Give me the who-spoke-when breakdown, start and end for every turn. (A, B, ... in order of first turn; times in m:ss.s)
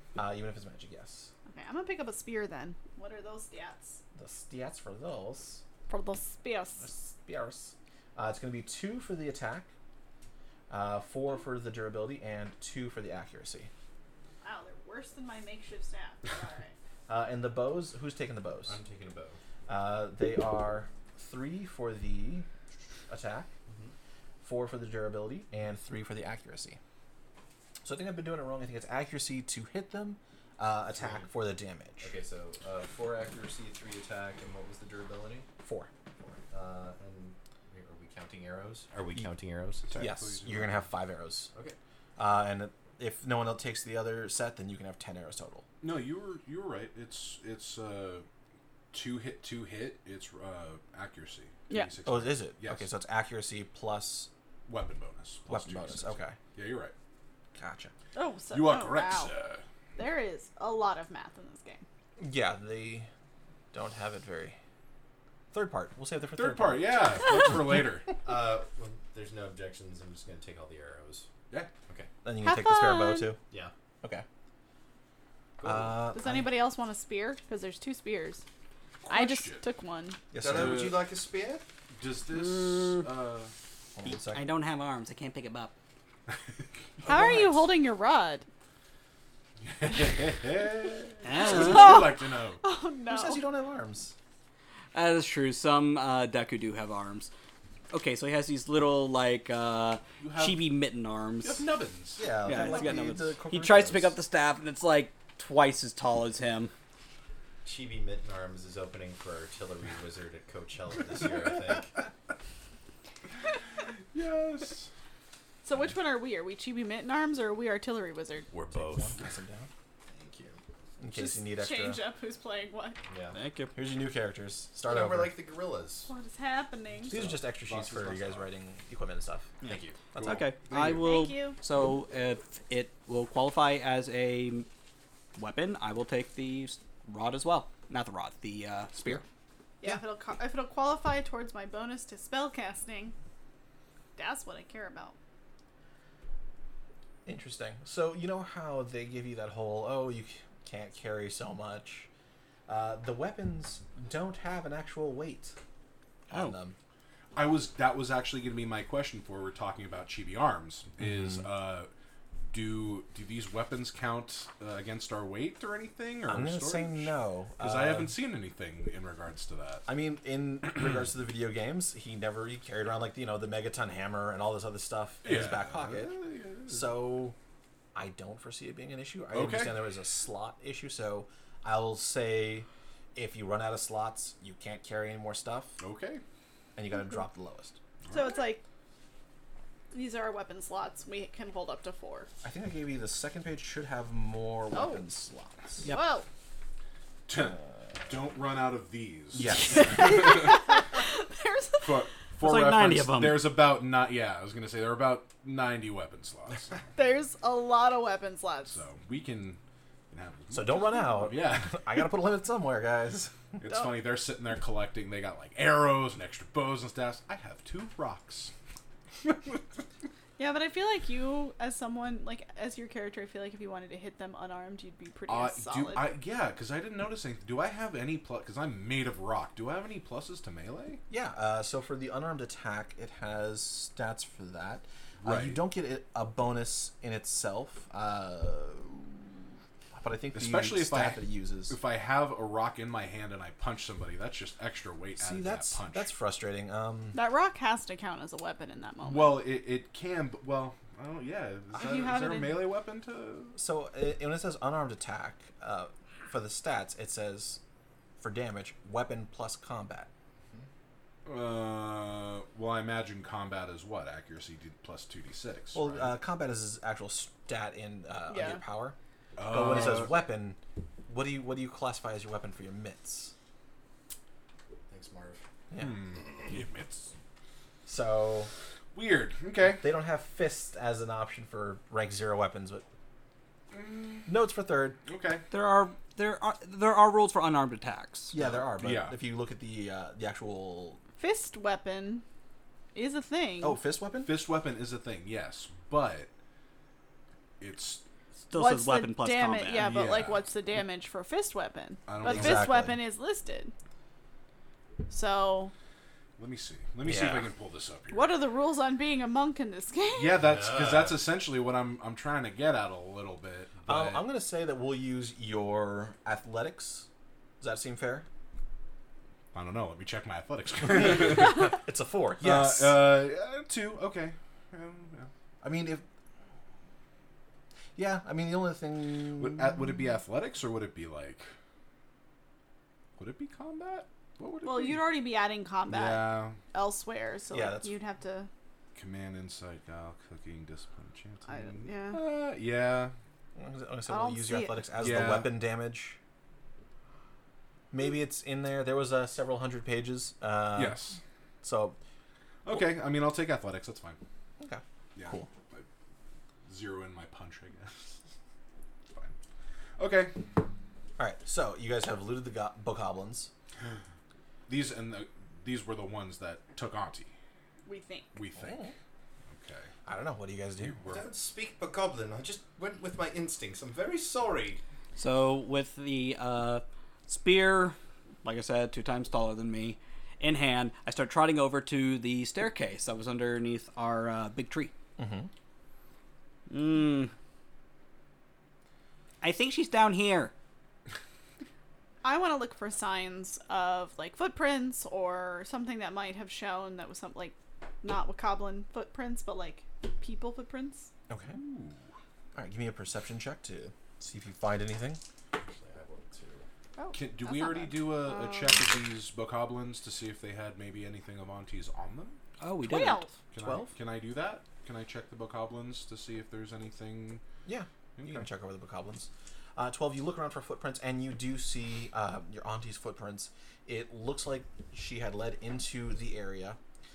0:00.1-0:01.3 A
0:01.5-0:04.0 B
0:04.1-0:05.6 A
0:05.9-0:06.9 B
0:06.8-0:09.7 A
0:10.7-0:13.7 A
0:14.4-0:16.7 B
0:17.1-0:18.8 A
0:18.6-0:19.4 C
0:19.7-0:22.5 A
0:23.1-0:23.5 A
0:23.7-0:23.9 C
0:24.4-0:26.8 A
0:27.8-0:32.1 A
0:30.9-0:31.3 C
0:32.0-0:35.5 C
0:35.6-0:36.3 A
0:36.5-0:39.9 C
0:39.9-0:40.9 D
0:39.9-0:41.5 A
0:42.2-0:45.6 A
0:45.8-0:48.2 D
0:48.9-0:52.9 D
0:52.0-0:54.3 A
0:54.7-0:56.9 D
0:55.5-0:56.4 A
0:57.5-0:57.9 A
0:58.1-0:59.3 B
0:58.5-0:59.6 D
1:00.0-1:01.8 B
1:02.2-1:03.1 A
1:03.7-1:04.6 A
1:05.5-1:07.1 A
1:06.3-1:08.1 D
1:08.2-1:11.3 C
1:12.2-1:13.4 A
1:12.4-1:13.3 B
1:15.6-1:16.0 C
1:15.6-1:16.5 A
1:16.1-1:18.4 B
1:19.0-1:19.6 D
1:19.1-1:20.2 B
1:20.3-1:21.0 A
1:20.4-1:21.6 C
1:20.4-1:21.0 D
1:21.9-1:23.5 D
1:22.6-1:22.9 E
1:23.9-1:24.5 A
1:24.0-1:25.7 E
1:27.0-1:27.7 A
1:27.0-1:28.4 B
1:29.6-1:32.6 D
1:31.2-1:32.1 E
1:31.4-1:33.4 B
1:33.1-1:34.1 A
1:34.9-1:37.3 E
1:37.9-1:41.7 E
1:40.2-1:40.7 D
1:41.4-1:42.7 D
1:42.2-1:44.2 A
1:42.4-1:46.7 E
1:47.6-1:51.9 C
1:54.1-1:54.9 D
1:55.6-1:58.5 B
1:58.5-1:59.2 D
1:58.7-1:59.7 A
2:00.1-2:00.6 C
2:01.0-2:02.0 A
2:01.1-2:03.0 B
2:03.1-2:03.4 C
2:03.3-2:03.7 E
2:03.7-2:05.4 A
2:04.8-2:06.1 C
2:06.1-2:07.1 B
2:07.1-2:09.5 A
2:07.1-2:08.4 D
2:09.6-2:14.7 E
2:09.6-2:10.0 C
2:10.1-2:10.5 A
2:11.0-2:11.6 B
2:15.3-2:19.2 E
2:19.8-2:23.1 B
2:24.2-2:25.2 B
2:27.2-2:32.1 A
2:32.7-2:35.6 A
2:36.3-2:36.8 A
2:37.3-2:41.9 D
2:41.0-2:41.4 A
2:42.5-2:49.8 D
2:46.3-2:48.1 A
2:49.9-2:56.1 A
2:55.2-2:57.0 D
2:56.7-2:57.4 A
2:57.9-3:05.8 A
2:59.3-2:59.8 D
3:05.8-3:06.2 D
3:06.7-3:07.8 A
3:08.0-3:08.4 D
3:08.1-3:08.6 B
3:09.9-3:12.3 B
3:12.4-3:15.9 A
3:14.7-3:15.0 B
3:15.8-3:16.1 E
3:15.9-3:16.3 B
3:17.3-3:20.6 D
3:19.3-3:20.4 A
3:19.7-3:22.1 B
3:21.8-3:26.8 D
3:22.4-3:23.5 E
3:27.0-3:28.8 B
3:28.6-3:32.0 D
3:30.5-3:33.3 A
3:33.6-3:38.5 D
3:40.4-3:46.1 B
3:45.3-3:51.0 D
3:51.1-3:59.4 A
3:55.2-3:55.6 D
3:59.9-4:01.8 A
4:00.3-4:06.1 D
4:05.2-4:07.2 A
4:07.1-4:09.4 B
4:09.0-4:13.6 D
4:11.7-4:12.7 B
4:13.5-4:17.6 A
4:18.2-4:20.1 A
4:21.2-4:26.2 D
4:25.7-4:33.3 A
4:28.3-4:28.6 B
4:29.4-4:30.2 D
4:34.9-4:35.4 C
4:35.7-4:36.0 A
4:35.8-4:37.1 D
4:37.8-4:38.5 A
4:38.9-4:39.9 D
4:39.6-4:42.8 A
4:43.7-4:44.4 D
4:44.2-4:45.0 A
4:45.0-4:45.5 D
4:45.5-4:48.3 E
4:48.3-4:51.0 A
4:48.4-4:49.2 D
4:51.2-4:52.2 B
4:52.9-4:53.8 B
4:53.6-4:54.3 A
4:54.2-4:56.3 D
4:57.6-4:58.0 D
4:58.5-4:59.9 E
4:58.5-5:03.7 B
4:59.7-5:00.4 D
5:02.1-5:02.7 D
5:02.2-5:03.0 A
5:05.1-5:05.7 B
5:06.4-5:08.3 D
5:07.0-5:07.5 A
5:08.1-5:10.4 B
5:10.1-5:14.2 D
5:10.4-5:11.2 C
5:13.9-5:17.1 A
5:17.6-5:18.3 A
5:19.5-5:21.7 D
5:20.9-5:23.0 A
5:22.4-5:25.3 D
5:25.6-5:26.0 A
5:28.0-5:30.0 A
5:29.4-5:31.5 D
5:33.2-5:35.1 D
5:34.6-5:38.5 B
5:35.9-5:36.6 D
5:37.5-5:37.9 A
5:38.9-5:43.1 D
5:41.5-5:42.2 B
5:43.6-5:46.2 A
5:44.1-5:44.8 B
5:45.0-5:45.6 D
5:47.9-5:52.0 A
5:50.7-5:51.2 D
5:52.6-5:54.2 D
5:54.6-5:55.5 A
5:55.2-5:55.8 D
5:56.6-5:58.2 D
5:59.1-5:59.3 D
6:00.0-6:00.4 D
6:01.2-6:03.5 A
6:04.7-6:07.3 D
6:07.8-6:08.3 B
6:08.3-6:08.8 D
6:08.5-6:08.9 A
6:09.5-6:09.9 D
6:10.0-6:11.2 A
6:10.8-6:11.3 D
6:11.1-6:14.8 C
6:15.2-6:24.9 E
6:25.2-6:25.5 A
6:26.7-6:27.3 E
6:29.4-6:30.5 E
6:32.2-6:41.1 B
6:41.3-6:41.6 A
6:41.5-6:42.1 D
6:42.5-6:45.2 A
6:45.5-6:46.6 C
6:47.0-6:48.8 B
6:47.1-6:52.4 D
6:52.6-6:53.2 E
6:52.8-6:53.4 B
6:53.5-6:57.4 D
6:53.6-6:53.9 A
6:57.6-7:06.8 A
6:58.2-6:58.4 D